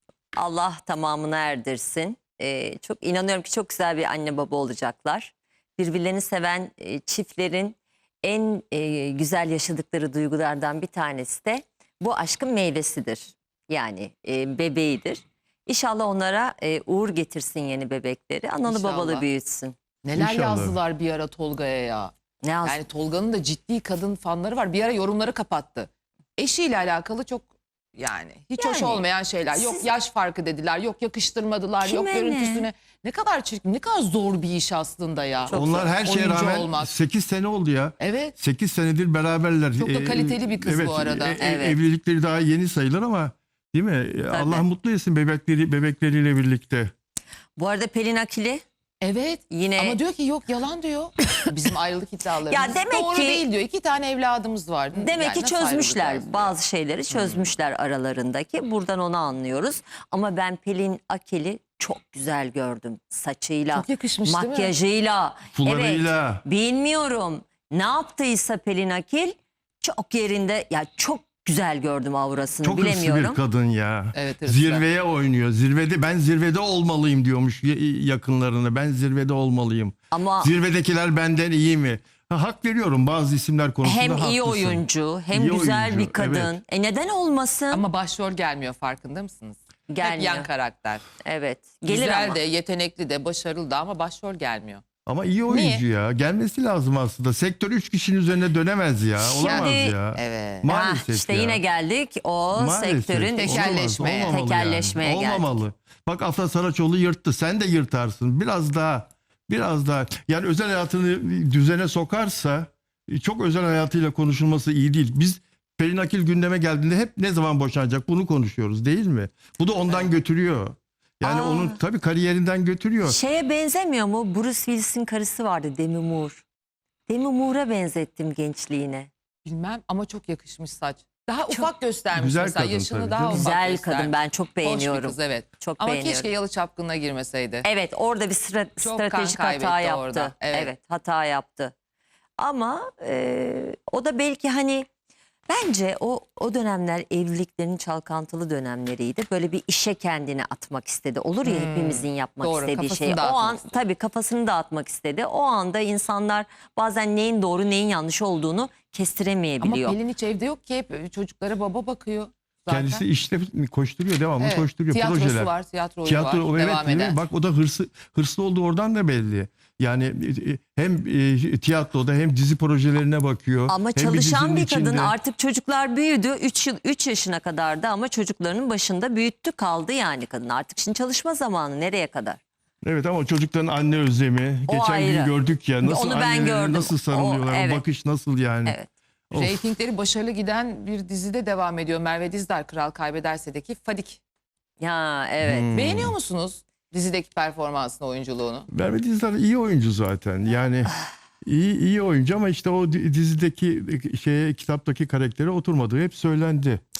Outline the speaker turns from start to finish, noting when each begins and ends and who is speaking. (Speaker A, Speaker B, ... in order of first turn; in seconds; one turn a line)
Speaker A: 0.4-19.7
Speaker B: 18.6-19.2
Speaker B: 20.0-22.1
Speaker C: 20.1-20.8
Speaker A: 22.4-22.8
Speaker B: 22.6-36.9
Speaker A: 28.6-29.9
Speaker A: 31.8-32.7
Speaker A: 35.5-35.9
Speaker C: 35.5-46.9
Speaker B: 38.0-38.3
Speaker B: 39.8-41.4
Speaker A: 41.4-41.8
Speaker A: 44.3-44.6
Speaker A: 47.6-48.6
Speaker B: 49.0-56.5
Speaker A: 49.5-50.0
Speaker A: 52.5-53.4
Speaker A: 55.0-73.4
Speaker B: 57.1-57.5
Speaker B: 63.7-64.7
Speaker C: 65.5-66.4
Speaker C: 72.6-86.6
Speaker B: 74.1-74.8
Speaker A: 80.1-80.5
Speaker A: 83.8-87.8
Speaker B: 87.7-91.0
Speaker A: 89.9-90.5
Speaker A: 91.2-92.4
Speaker B: 91.9-94.8
Speaker C: 95.0-101.6
Speaker B: 95.5-95.8
Speaker A: 99.2-100.0
Speaker B: 99.4-100.7
Speaker A: 100.7-105.5
Speaker C: 102.5-123.2
Speaker B: 103.3-104.3
Speaker A: 121.2-121.8
Speaker A: 123.0-126.4
Speaker A: 127.1-129.1
Speaker B: 129.4-137.6
Speaker C: 132.1-133.5
Speaker A: 133.3-136.3
Speaker A: 137.6-141.7
Speaker B: 138.8-140.7
Speaker A: 142.4-144.9
Speaker A: 145.5-160.0
Speaker B: 151.4-153.8
Speaker B: 159.6-163.0
Speaker C: 162.7-165.5
Speaker B: 164.4-167.2
Speaker C: 166.0-175.1
Speaker A: 173.7-182.4
Speaker C: 182.8-188.8
Speaker A: 184.7-187.8
Speaker C: 189.3-189.6
Speaker B: 189.3-194.2
Speaker A: 194.8-195.7
Speaker C: 195.4-196.1
Speaker B: 195.7-198.7
Speaker C: 198.7-206.8